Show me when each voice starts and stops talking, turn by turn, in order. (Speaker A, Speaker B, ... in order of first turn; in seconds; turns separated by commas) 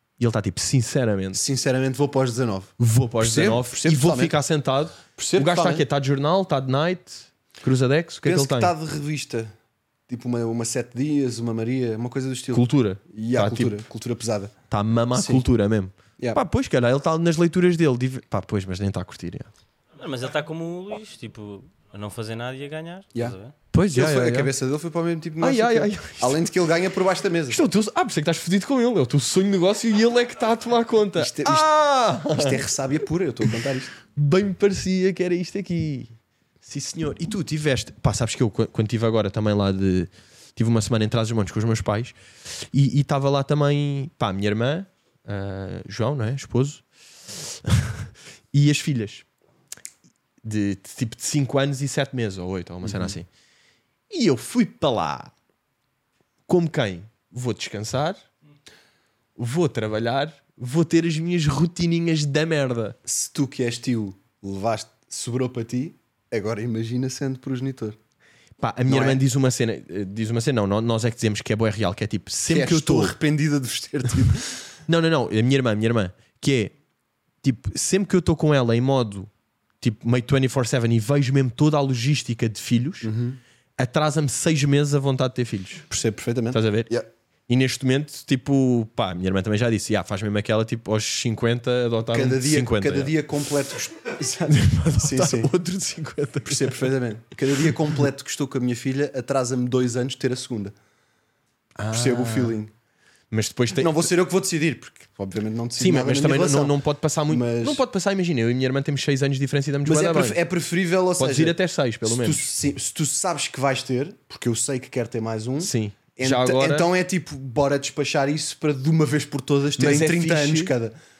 Speaker A: 0.2-1.4, Speaker B: 1.3-4.3, Speaker A: 2.8-8.7, Speaker B: 5.2-5.8, Speaker B: 8.2-9.5, Speaker B: 10.1-14.5, Speaker A: 12.5-13.8, Speaker A: 14.7-19.5, Speaker B: 15.1-15.4, Speaker C: 20.0-23.5, Speaker A: 23.7-24.5, Speaker B: 23.9-27.6, Speaker A: 25.4-26.4, Speaker A: 27.5-32.6, Speaker B: 31.1-31.7, Speaker B: 32.2-33.9, Speaker A: 34.1-36.1, Speaker A: 36.6-49.2, Speaker A: 50.4-53.3, Speaker B: 52.8-53.2, Speaker A: 54.1-55.3, Speaker A: 56.5-58.2, Speaker A: 59.4-63.0, Speaker B: 63.0-68.0, Speaker A: 68.6-73.2, Speaker B: 68.9-69.2, Speaker B: 72.5-74.6, Speaker A: 74.9-76.7, Speaker A: 77.4-79.3, Speaker A: 79.8-83.1, Speaker B: 83.0-83.4, Speaker A: 83.8-85.9, Speaker B: 85.9-87.1, Speaker A: 86.5-86.9, Speaker A: 87.5-93.2, Speaker B: 92.1-95.5, Speaker A: 94.5-96.9, Speaker B: 96.5-100.7, Speaker A: 101.8-102.6, Speaker B: 101.9-102.7, Speaker A: 103.3-104.1, Speaker B: 103.7-107.8, Speaker A: 105.8-110.4, Speaker B: 109.8-121.0, Speaker A: 111.2-112.5, Speaker A: 115.6-116.9, Speaker A: 119.8-120.7